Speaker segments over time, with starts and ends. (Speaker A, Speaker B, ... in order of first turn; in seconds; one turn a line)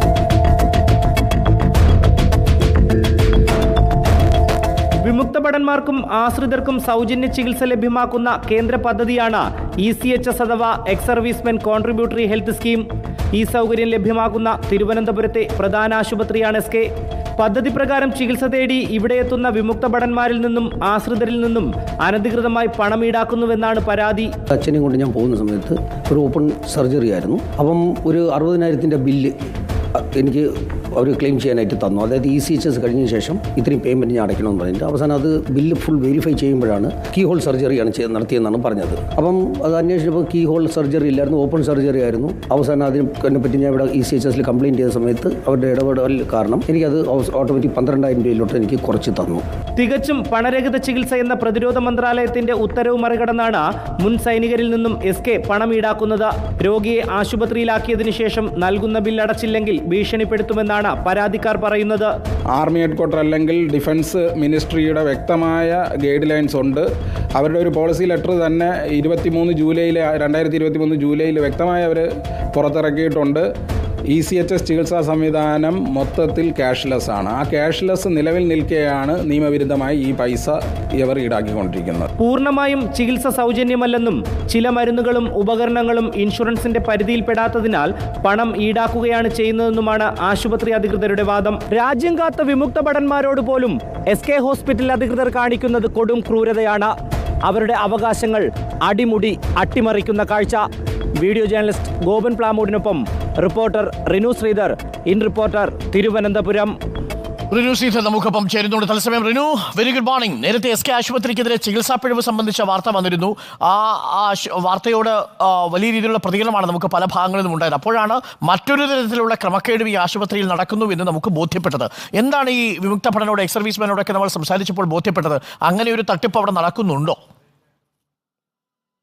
Speaker A: 5.0-12.8
Speaker A: 13.3-16.9
Speaker A: 17.4-24.3
Speaker B: 24.5-29.3
Speaker B: 29.9-49.4
Speaker A: 49.8-62.1
Speaker C: 62.5-73.5
Speaker C: 74.1-82.1
Speaker A: 82.2-96.9
Speaker A: 97.4-100.6
Speaker A: 101.2-106.7
Speaker D: 107.5-127.2